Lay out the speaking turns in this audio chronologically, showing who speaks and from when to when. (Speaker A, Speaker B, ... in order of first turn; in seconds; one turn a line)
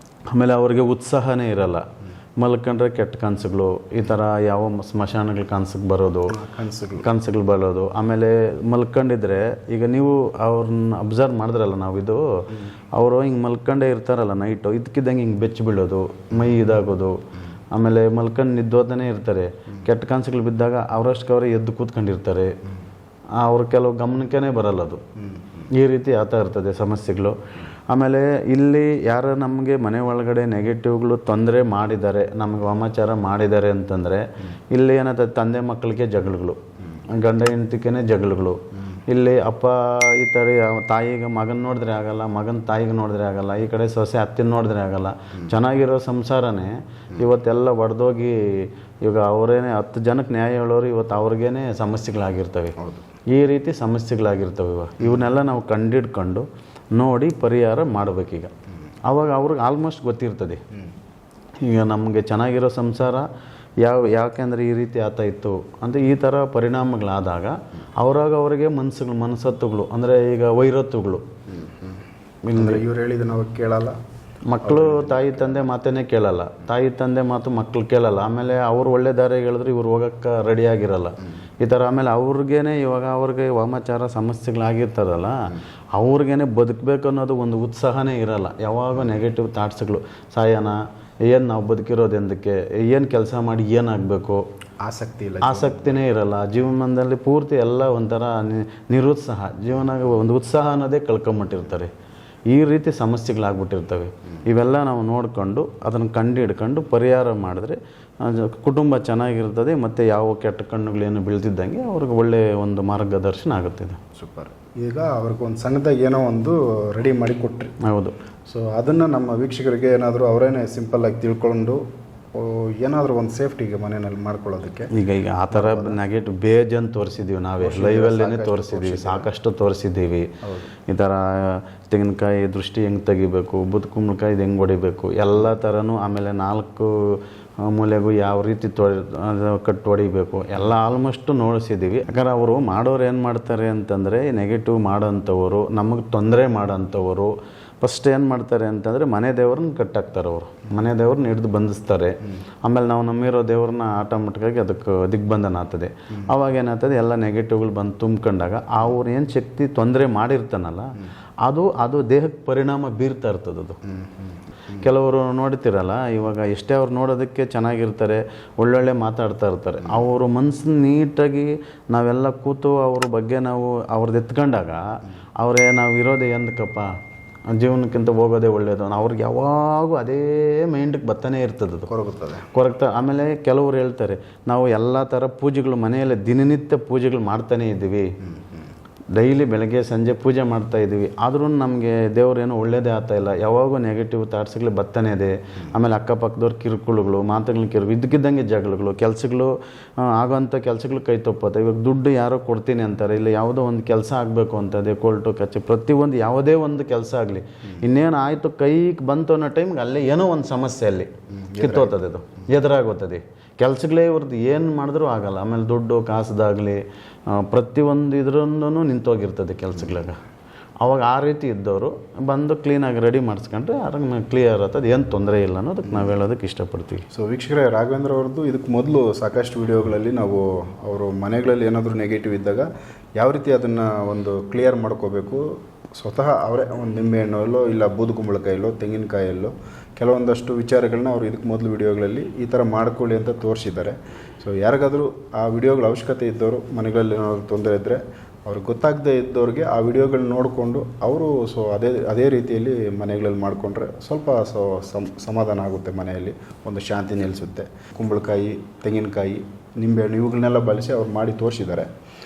Speaker A: 0.3-1.9
Speaker A: 2.4-6.4
Speaker B: 6.3-7.1
Speaker A: 7.0-12.2
Speaker A: 12.9-17.2
Speaker A: 17.7-22.5
Speaker A: 23.4-25.0
Speaker B: 25.2-25.7
Speaker A: 25.7-27.4
Speaker A: 27.9-36.6
Speaker A: 37.1-52.8
Speaker B: 52.8-53.0
Speaker A: 53.3-58.5
Speaker B: 55.0-55.3
Speaker A: 59.0-60.6
Speaker A: 61.6-63.3
Speaker A: 63.8-71.2
Speaker B: 71.5-72.0
Speaker A: 72.4-72.8
Speaker B: 72.5-74.0
Speaker A: 74.5-94.4
Speaker B: 74.6-75.7
Speaker B: 94.8-96.0
Speaker A: 95.4-101.9
Speaker A: 102.5-114.0
Speaker B: 114.2-117.7
Speaker A: 117.8-118.2
Speaker B: 118.5-121.8
Speaker B: 122.3-124.9
Speaker A: 124.9-130.3
Speaker B: 125.5-126.0
Speaker B: 127.6-129.3
Speaker A: 130.8-163.8
Speaker B: 163.8-164.8
Speaker A: 164.7-176.9
Speaker A: 177.5-181.9
Speaker B: 181.9-182.5
Speaker A: 182.5-188.1
Speaker A: 189.1-220.2
Speaker B: 211.3-212.0
Speaker A: 220.8-227.0
Speaker B: 227.1-235.4
Speaker B: 236.0-261.9